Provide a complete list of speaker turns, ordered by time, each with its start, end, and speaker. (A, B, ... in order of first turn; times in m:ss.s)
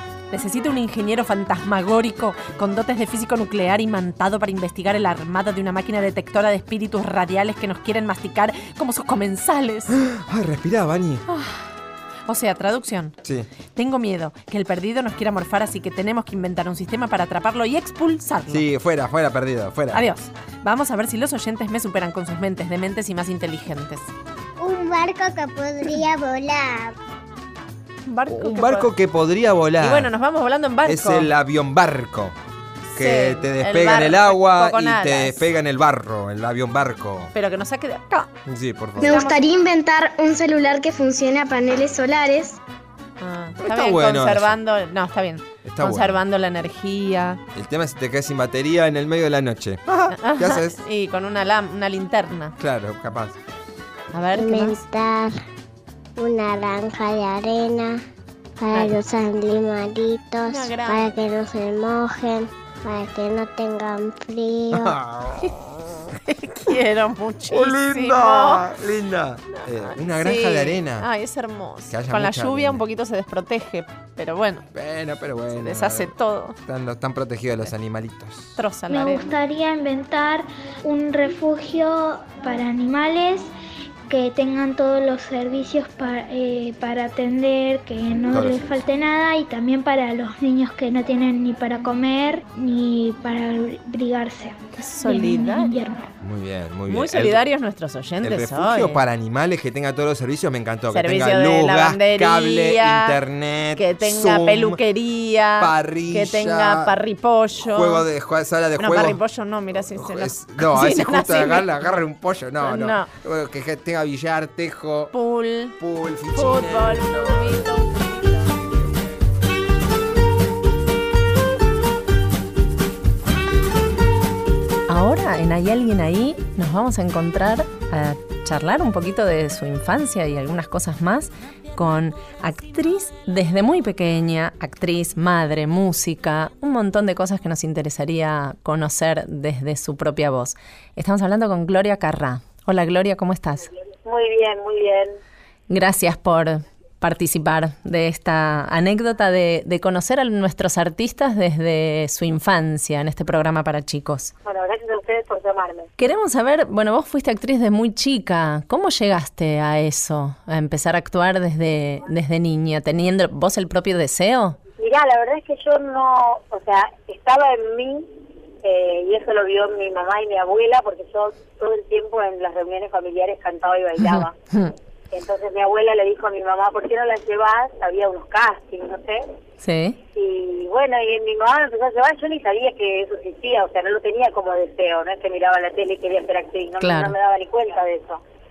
0:00.3-0:09.9 A
0:09.9-0:11.2 B
0:11.3-0:11.7 A
0:12.3-0:13.2 A
0:13.7-0:18.6 A
0:18.5-0:20.0 B
0:19.9-0:24.1 A
0:24.6-0:26.9 C
0:28.0-0:28.9 A
0:28.3-0:30.1 B
0:29.8-0:31.3 A
0:30.8-0:32.3 B
0:32.9-0:35.4 A
0:33.0-0:37.3 B
0:37.3-0:38.3 A
0:38.4-0:39.2 B
0:39.0-0:42.6 D
0:39.0-0:39.4 A
0:43.2-0:47.4 A
0:43.6-0:44.6 B
0:45.6-0:46.2 B
0:47.5-0:50.8 B
0:50.1-0:52.6 A
0:52.6-0:53.4 B
0:54.1-0:54.8 A
0:54.3-0:55.4 C
0:56.2-0:58.0 C
0:58.6-1:04.9 C
1:00.4-1:01.1 A
1:04.8-1:05.5 B
1:06.2-1:08.7 A
1:07.5-1:11.1 B
1:09.5-1:14.7 A
1:11.9-1:12.8 B
1:14.7-1:16.1 B
1:15.5-1:16.6 A
1:16.6-1:18.6 B
1:18.6-1:19.3 A
1:18.9-1:23.5 E
1:24.1-1:36.1 E
1:28.3-1:28.6 B
1:34.8-1:35.7 A
1:36.2-1:37.4 B
1:36.9-1:39.0 A
1:38.2-1:44.8 B
1:40.9-1:43.2 A
1:43.8-1:48.0 A
1:45.6-1:46.9 B
1:47.7-1:49.2 B
1:48.8-1:51.7 A
1:49.7-1:55.1 B
1:52.6-1:53.1 A
1:55.1-1:55.8 A
1:55.8-1:57.8 B
1:56.3-1:58.4 A
1:58.6-1:59.1 B
2:04.9-2:23.7 A
2:24.0-2:25.2 F
2:25.7-2:34.3 A
2:34.4-2:35.9 F
2:36.0-2:44.6 A
2:44.8-2:48.1 F
2:48.6-2:54.4 F
2:54.0-2:54.7 A
2:55.1-2:59.2 F
2:59.6-3:00.0 A
3:00.1-3:08.2 F
3:06.8-3:07.1 A